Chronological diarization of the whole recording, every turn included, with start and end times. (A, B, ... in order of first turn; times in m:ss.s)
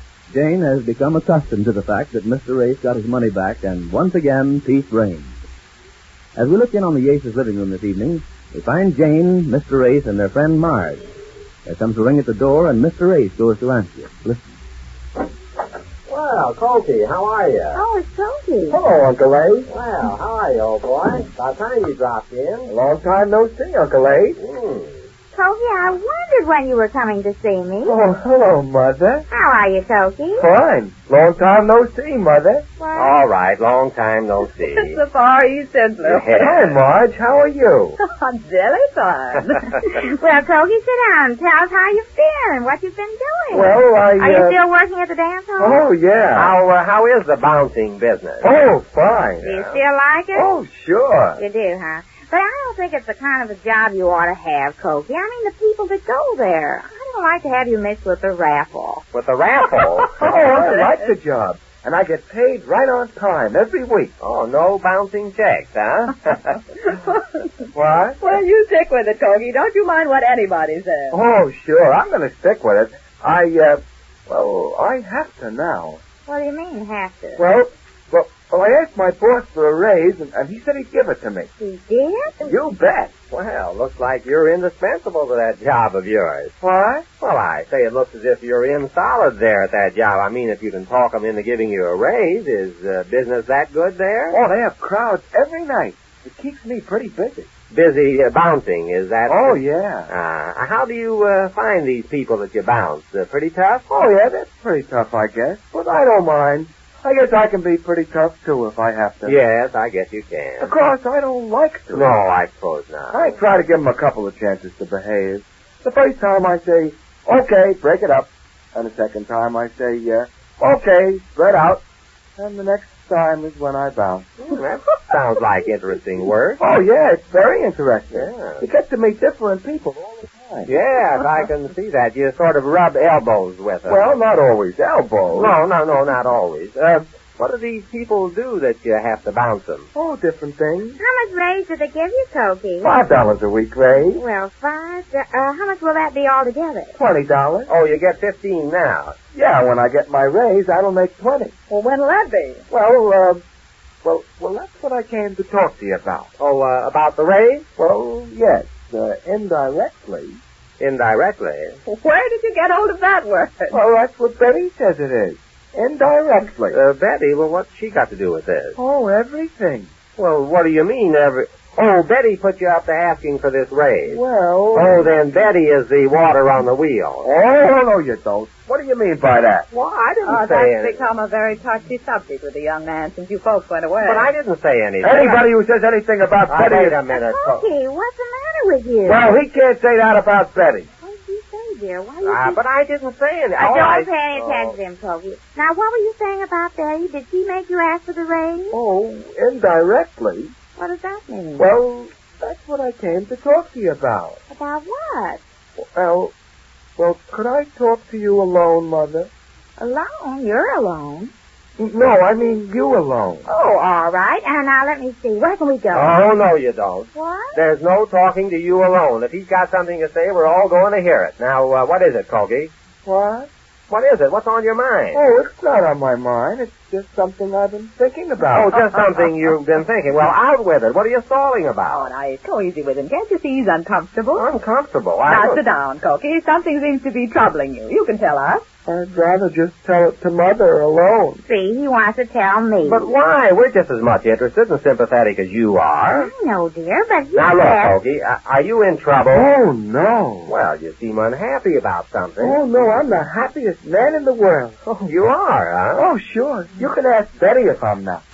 0:00.3-0:05.3 A
0:06.4-0:11.0 A
0:11.6-0:14.5 A
0:16.0-0:17.8 B
0:17.7-0:18.8 C
0:18.7-0:19.7 D
0:19.7-0:22.7 B
0:22.7-0:24.4 D
0:24.4-0:25.1 B
0:25.3-0:28.0 C
0:27.8-0:29.2 D
0:29.3-0:30.5 C
0:30.3-0:32.6 D
0:32.8-0:33.2 C
0:32.9-0:35.0 B
0:34.7-0:36.5 E
0:36.0-0:36.8 B
0:36.4-0:38.0 D
0:38.0-0:40.0 E
0:40.0-0:45.9 C
0:43.5-0:44.6 D
0:45.6-0:46.6 D
0:46.3-0:48.5 B
0:48.4-0:49.4 D
0:49.3-0:49.8 B
0:49.4-0:50.5 C
0:50.3-0:51.4 D
0:51.4-0:59.0 C
0:59.1-1:00.5 B
1:00.2-1:04.1 D
1:04.2-1:06.6 B
1:06.8-1:07.4 E
1:07.7-1:08.2 D
1:08.2-1:11.2 E
1:11.1-1:16.0 D
1:16.3-1:17.4 C
1:17.4-1:21.5 D
1:21.6-1:22.6 C
1:22.4-1:23.1 D
1:23.3-1:26.5 B
1:26.6-1:27.0 D
1:27.2-1:34.4 B
1:34.3-1:37.5 D
1:37.7-1:44.0 B
1:39.2-1:40.1 D
1:43.9-1:49.4 D
1:49.2-1:50.8 B
1:50.6-1:52.2 D
1:51.9-1:53.4 B
1:53.1-2:01.8 D
2:02.4-2:04.4 D
2:04.4-2:06.6 B
2:06.6-2:10.7 D
2:08.1-2:08.6 B
2:10.7-2:14.1 B
2:13.8-2:15.6 D
2:15.3-2:19.9 B
2:19.9-2:21.0 D
2:21.0-2:23.0 C
2:22.8-2:24.2 D
2:24.1-2:27.0 C
2:27.0-2:27.7 D
2:27.7-2:29.2 B
2:29.3-2:31.5 D
2:31.7-2:32.6 E
2:32.7-2:33.4 D
2:34.0-2:36.3 D
2:36.4-2:37.6 B
2:37.8-2:40.4 D
2:40.8-2:41.8 B
2:41.8-2:43.8 E
2:43.7-2:46.8 D
2:46.7-2:48.8 B
2:48.8-2:49.9 D
2:50.2-2:54.2 B
2:54.0-2:55.2 D
2:54.7-2:57.3 B
2:57.2-2:59.7 D
2:59.7-3:01.0 B
3:00.2-3:04.3 E
3:04.0-3:05.5 B
3:05.0-3:07.0 D
3:06.5-3:07.7 B
3:07.1-3:09.3 C
3:09.0-3:10.9 D
3:11.0-3:12.6 C
3:12.2-3:14.8 B
3:13.6-3:18.8 C
3:18.7-3:20.5 D
3:20.8-3:21.7 C
3:21.6-3:24.4 D
3:24.5-3:25.4 C
3:25.8-3:26.3 D
3:27.0-3:29.3 D
3:29.8-3:31.3 C
3:31.8-3:33.5 D
3:33.4-3:36.2 C
3:35.9-3:42.7 B
3:37.1-3:37.6 C
3:43.0-3:43.5 D
3:43.9-3:45.2 B
3:45.1-3:48.9 D
3:48.5-3:52.1 B
3:51.9-3:54.5 E
3:54.3-3:55.6 B
3:55.2-3:58.6 E
3:58.8-4:01.4 D
4:01.4-4:03.2 C
4:02.8-4:06.3 B
4:06.1-4:08.0 C
4:07.3-4:09.5 B
4:09.3-4:10.6 D
4:10.5-4:13.1 B
4:12.4-4:15.2 D
4:15.1-4:16.0 B
4:15.9-4:18.2 D